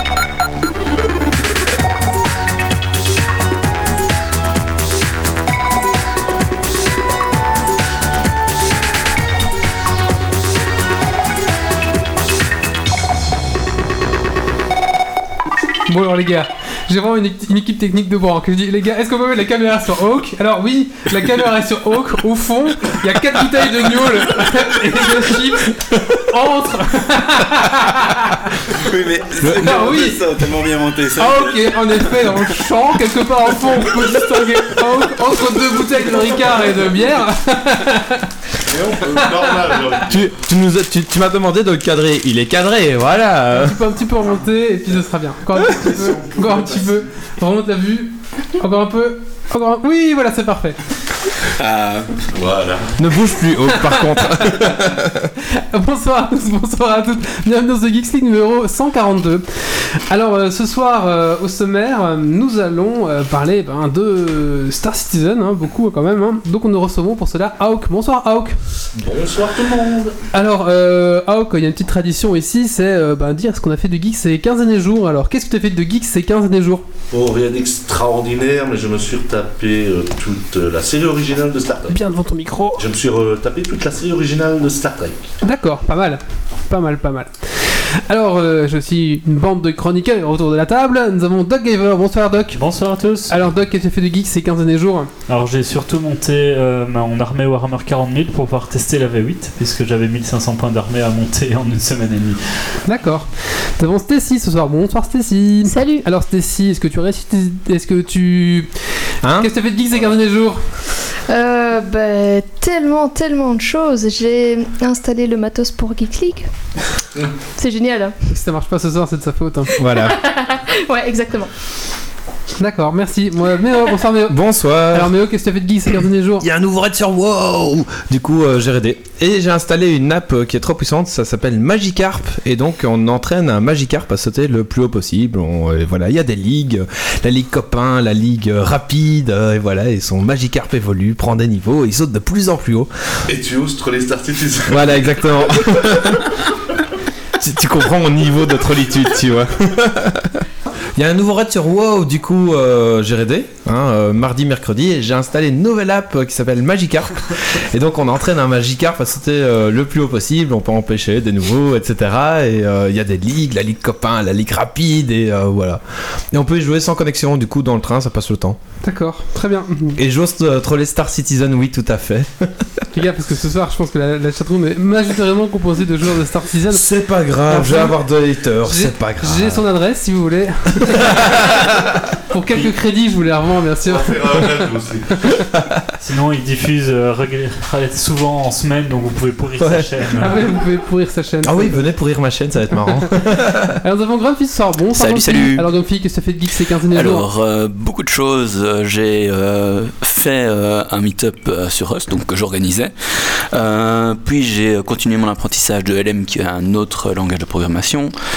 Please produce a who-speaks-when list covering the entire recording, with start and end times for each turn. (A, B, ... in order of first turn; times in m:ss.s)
0:15.9-0:28.8 A
0:28.7-0:31.7 B
0:29.4-0:38.3 A
0:38.7-0:40.3 C
0:40.1-0:43.8 D
0:43.5-0:50.8 A
0:51.6-0:52.1 B
0:52.3-0:52.9 C
0:53.0-0:55.3 D
0:53.7-0:54.2 A
0:55.4-0:59.4 A
1:00.1-1:08.6 A
1:08.9-1:10.1 C
1:10.3-1:16.8 A
1:17.1-1:21.9 C
1:21.9-1:22.8 A
1:22.8-1:25.3 C
1:25.4-1:32.6 A
1:32.6-1:33.3 E
1:33.3-1:35.1 A
1:35.3-1:42.4 E
1:42.8-1:48.7 A
1:45.7-1:46.0 F
1:49.2-1:49.5 D
1:49.4-1:50.6 A
1:51.3-1:56.4 F
1:57.6-1:58.2 F
1:58.3-1:59.8 A
1:59.8-2:00.2 D
2:00.0-2:01.5 F
2:02.6-2:06.4 A
2:04.3-2:05.1 D
2:06.4-2:22.9 D
2:23.3-2:26.2 C
2:24.7-2:26.3 D
2:27.4-2:45.8 D
2:46.3-2:48.6 D
2:48.8-2:50.0 A
2:50.0-2:52.8 D
2:52.9-2:56.9 A
2:56.7-2:59.6 D
2:57.5-2:58.0 A
2:58.6-3:01.5 A
3:00.9-3:02.0 D
3:02.3-3:04.6 A
3:03.9-3:05.2 C
3:05.5-3:05.8 D
3:06.0-3:10.4 E
3:09.6-3:09.9 D
3:10.2-3:11.8 A
3:11.4-3:13.8 D
3:13.8-3:17.3 A
3:14.9-3:15.7 B
3:16.9-3:22.9 B
3:23.5-3:28.1 B